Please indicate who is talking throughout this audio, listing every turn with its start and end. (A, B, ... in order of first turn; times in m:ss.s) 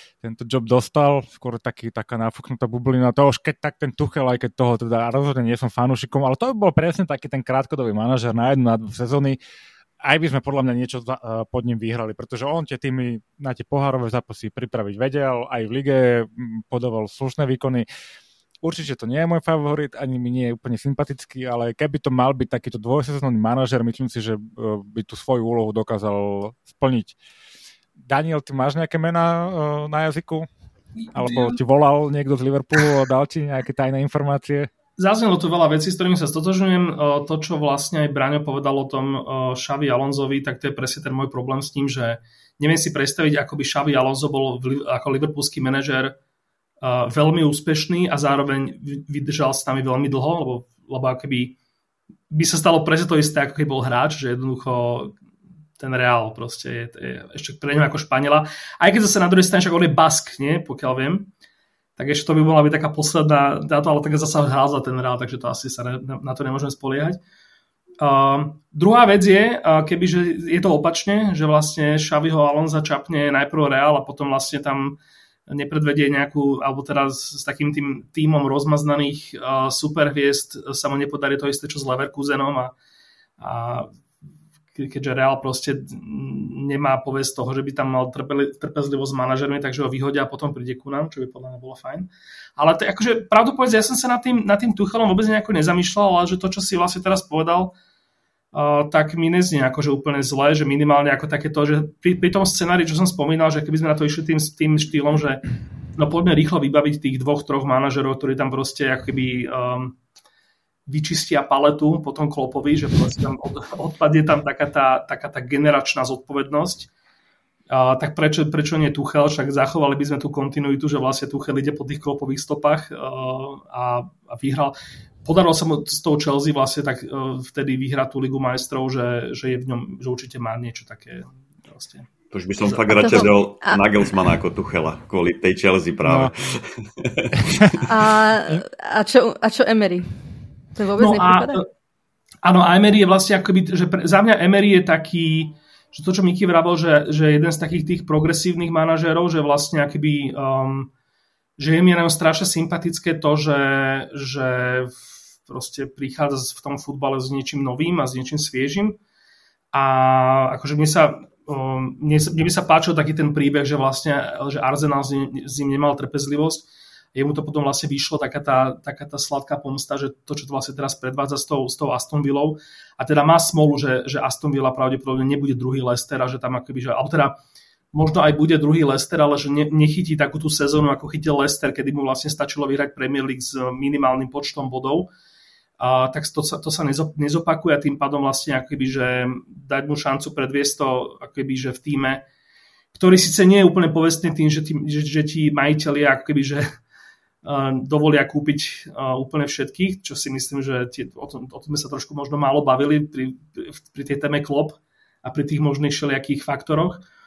0:00.2-0:09.4 A
0:10.0-0:17.8 A
0:18.6-0:27.2 A
0:28.0-0:30.5 A
0:31.1-0:34.7 A
0:31.2-0:31.6 B
0:35.0-0:46.1 B
0:46.8-0:51.6 B
0:52.3-0:55.2 B
0:55.8-1:01.3 B
1:02.0-1:07.2 B
1:08.0-1:22.7 B
1:23.4-1:23.9 B
1:24.7-1:37.7 B
1:38.5-1:45.4 B
1:46.0-1:50.0 B
1:50.9-1:56.9 B
1:57.7-2:12.1 B
2:12.3-2:17.8 C
2:12.7-2:13.3 B
2:12.9-2:13.8 D
2:16.0-2:16.3 A
2:17.8-2:20.2 D
2:20.7-2:21.6 D
2:21.0-2:21.6 B
2:22.4-2:30.9 B
2:31.6-2:39.0 B
2:39.7-2:57.3 B
2:57.9-3:05.1 B
3:05.8-3:12.2 B
3:12.9-3:16.7 B
3:17.4-3:27.0 B